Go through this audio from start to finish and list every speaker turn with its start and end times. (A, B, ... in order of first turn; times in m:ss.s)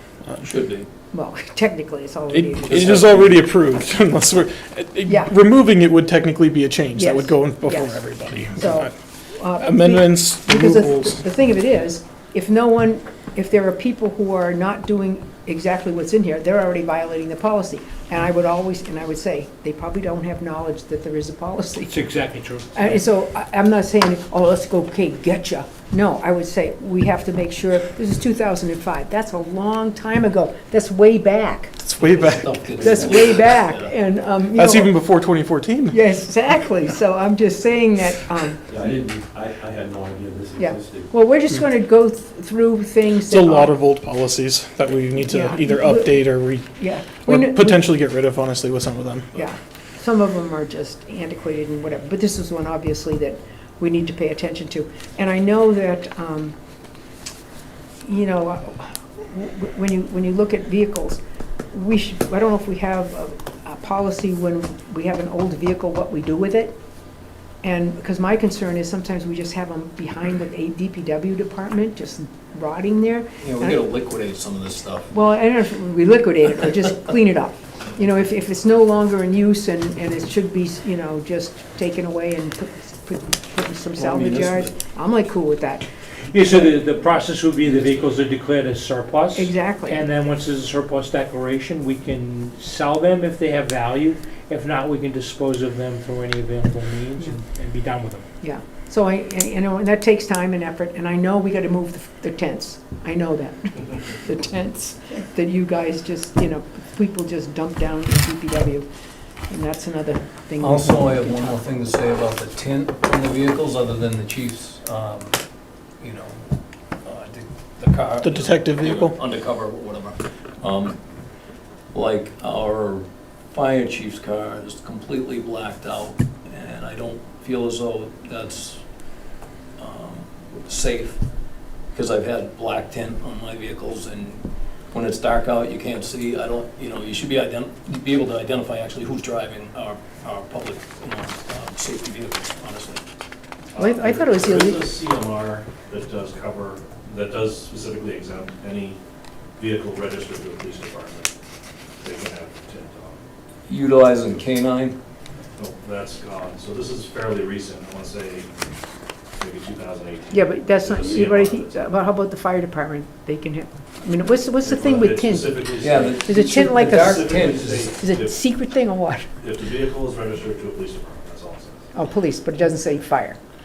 0:00.4-0:00.9 A
0:01.1-0:03.0 B
0:02.3-0:08.9 C
0:02.7-0:03.4 A
0:05.1-0:05.3 B
0:06.9-0:08.0 B
0:08.5-0:22.0 B
0:09.6-0:11.2 C
0:21.9-0:23.0 D
0:22.7-0:31.8 B
0:31.8-0:32.6 C
0:32.0-0:33.9 A
0:32.7-0:33.4 E
0:32.8-0:34.9 B
0:34.6-0:36.0 C
0:35.9-0:38.7 B
0:38.7-0:41.1 E
0:40.6-0:43.7 B
0:43.3-0:49.4 C
0:45.2-0:47.8 B
0:49.4-0:56.6 B
0:58.0-1:01.2 B
1:01.7-1:06.8 B
1:07.6-1:13.8 B
1:13.4-1:15.1 A
1:15.1-1:25.9 B
1:24.0-1:24.7 A
1:26.3-1:38.2 D
1:26.4-1:26.7 B
1:27.6-1:28.1 A
1:29.4-1:30.0 B
1:38.4-1:48.9 B
1:49.5-1:51.6 B
1:50.6-1:55.4 A
1:56.0-1:56.5 A
1:57.0-2:01.0 A
1:58.2-1:59.2 C
2:01.9-2:08.8 A
2:09.8-2:11.2 A
2:11.9-2:23.0 A
2:23.7-2:29.0 F
2:23.8-2:24.9 B
2:29.6-2:31.3 F
2:32.0-2:33.2 F
2:33.7-2:35.0 A
2:35.6-2:38.5 F
2:39.4-2:41.8 F
2:40.3-2:49.3 B
2:44.6-2:48.4 F
2:45.8-2:47.9 A
2:49.4-2:51.8 F
2:51.9-2:53.4 B